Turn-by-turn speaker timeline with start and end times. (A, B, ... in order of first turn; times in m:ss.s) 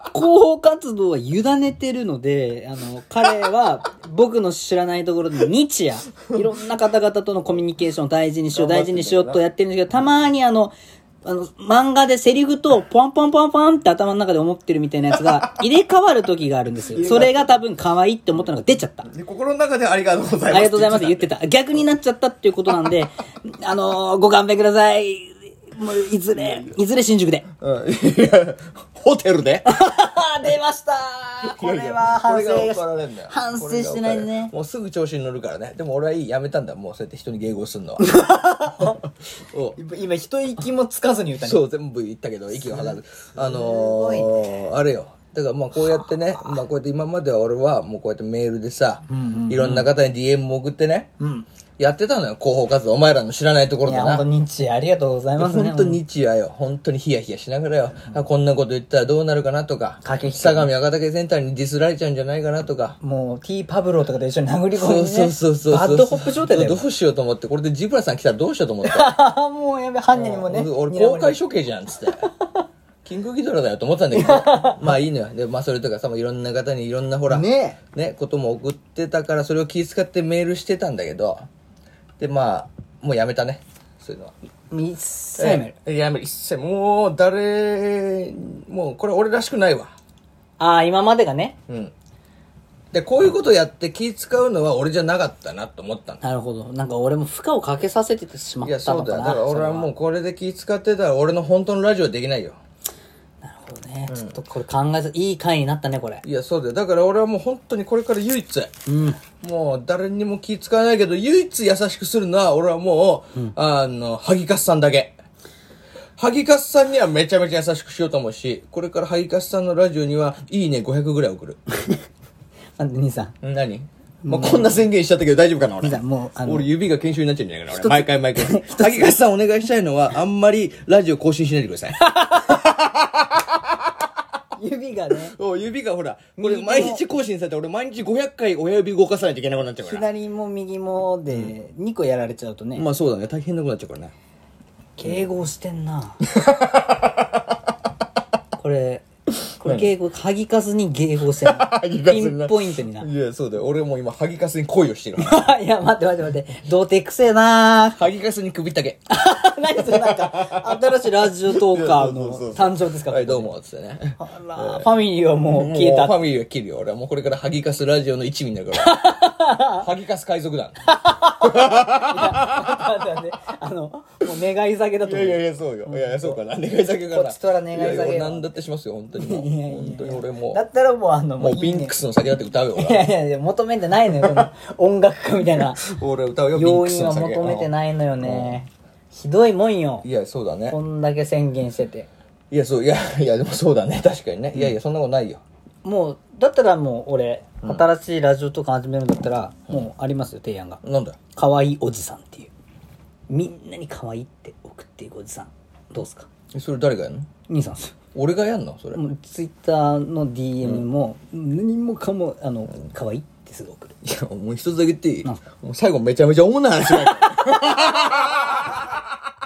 0:00.1-0:19.1 A
0:08.5-0:09.4 B
0:15.1-0:15.4 B
0:16.9-0:17.5 B
0:19.1-0:21.3 B
0:20.5-0:27.4 A
0:27.6-0:29.7 B
0:29.6-0:34.5 A
0:31.4-0:38.1 B
0:38.0-0:39.0 A
0:38.7-0:39.8 B
0:39.8-0:41.6 A
0:41.4-0:51.1 B
0:42.5-0:44.7 A
0:45.8-0:46.1 A
0:49.1-0:49.9 A
0:51.2-0:51.4 A
0:51.8-0:54.2 B
0:53.8-0:56.0 A
0:55.4-1:03.0 B
1:00.0-1:00.7 A
1:03.0-1:06.8 A
1:04.7-1:09.1 B
1:08.8-1:11.4 A
1:10.1-1:12.2 B
1:12.2-1:12.5 A
1:13.0-1:21.4 B
1:14.1-1:14.8 A
1:17.3-1:17.8 A
1:22.2-1:24.3 B
1:24.7-1:25.7 A
1:25.4-1:29.9 B
1:30.6-1:31.6 A
1:31.7-1:31.9 B
1:32.9-1:36.2 B
1:36.2-1:39.9 A
1:38.6-1:42.6 B
1:43.4-1:46.2 A
1:44.1-1:44.4 B
1:46.2-1:48.7 B
1:48.8-1:49.2 A
1:49.4-1:55.2 B
1:56.2-2:01.6 B
2:02.8-2:03.3 A
2:03.4-2:13.6 B
2:04.2-2:04.8 A
2:05.8-2:06.7 A
2:07.7-2:09.1 A
2:12.0-2:12.7 A
2:14.6-2:15.3 A
2:15.3-2:20.1 B
2:16.4-2:17.0 A
2:19.8-2:22.8 A
2:22.7-2:24.1 B
2:25.0-2:26.2 A
2:26.2-2:27.3 B
2:28.6-2:29.0 A
2:29.6-2:33.1 A
2:29.6-2:29.9 B
2:31.4-2:35.4 B
2:35.2-2:38.0 A
2:37.9-2:39.0 B
2:39.1-2:43.5 A
2:39.8-2:44.9 B
2:44.2-2:46.2 A
2:45.5-2:50.8 B
2:48.8-2:49.8 A
2:50.9-2:56.4 A
2:51.4-2:53.1 B
2:55.0-3:00.6 B
2:57.1-2:58.5 A
2:59.1-3:02.0 A
3:01.4-3:03.1 B
3:02.7-3:05.9 A
3:04.2-3:04.5 B
3:05.8-3:07.7 B
3:06.5-3:10.0 A
3:08.2-3:08.6 B
3:10.0-3:10.8 B
3:10.7-3:12.1 A
3:12.5-3:15.4 B
3:15.8-3:20.8 A
3:20.8-3:21.2 B
3:21.3-3:22.5 A
3:23.3-3:26.3 A
3:26.5-3:27.3 B
3:27.5-3:27.9 A
3:28.1-3:29.0 B
3:28.9-3:33.9 A
3:30.6-3:30.9 B
3:34.0-3:38.9 B